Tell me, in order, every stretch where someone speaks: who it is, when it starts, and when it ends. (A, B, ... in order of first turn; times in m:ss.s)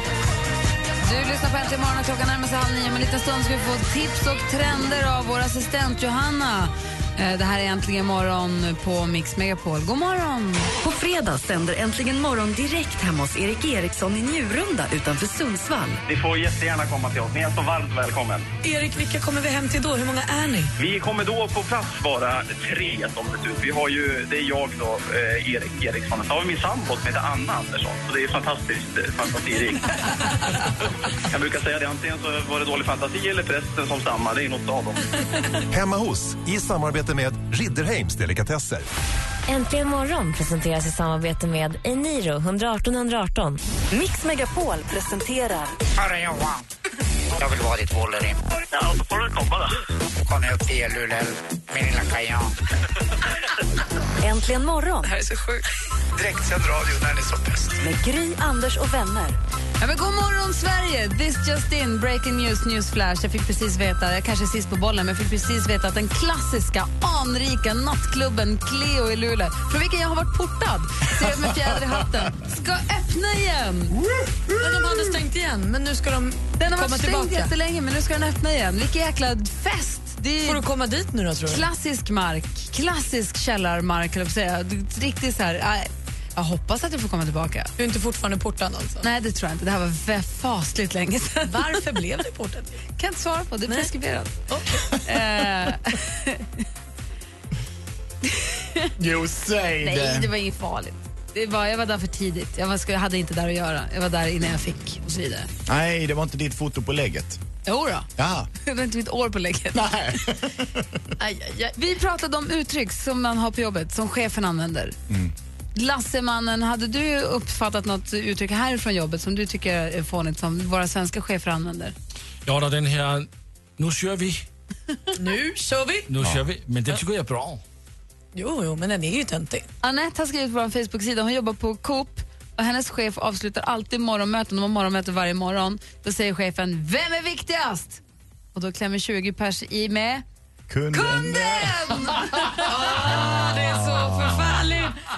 0:01.0-0:10.7 A
0:10.8-0:16.0 B
0:16.1-0:18.5 C
0:18.6-0:20.7 D
0:20.8-0:29.9 C
0:31.3-0:35.0 C
0:35.7-0:38.9 E
0:39.5-0:43.6 F
0:43.9-0:45.8 B
0:46.0-0:46.6 G
0:47.4-0:48.4 G
0:48.8-0:49.6 C
0:50.2-0:52.5 G
0:54.2-0:55.1 B
0:55.0-0:55.6 D
0:57.8-0:59.4 B
0:59.8-1:14.0 A
1:14.6-1:17.5 D
1:16.6-1:20.6 A
1:20.4-1:21.7 D
1:21.5-1:27.7 A
1:27.8-1:29.1 D
1:29.0-1:31.8 A
1:31.4-1:32.9 D
1:33.0-1:34.4 A
1:34.5-1:34.9 D
1:35.0-1:36.5 A
1:38.3-1:38.9 A
1:39.0-1:40.3 H
1:39.8-1:45.5 A
1:45.7-1:47.4 H
1:47.7-1:48.1 A
1:48.2-1:48.5 H
1:48.6-1:49.9 A
1:49.7-1:51.0 H
1:51.2-1:51.8 D
1:51.8-1:55.0 A
1:55.1-1:55.3 H
1:55.8-2:02.0 A
2:02.5-2:04.5 I
2:05.2-2:06.1 D
2:06.1-2:07.6 I
2:08.4-2:09.7 D
2:09.8-2:18.0 A
2:18.5-2:20.2 A
2:20.7-2:21.9 H
2:20.9-2:22.7 A
2:22.6-2:25.0 D
2:23.8-2:24.6 H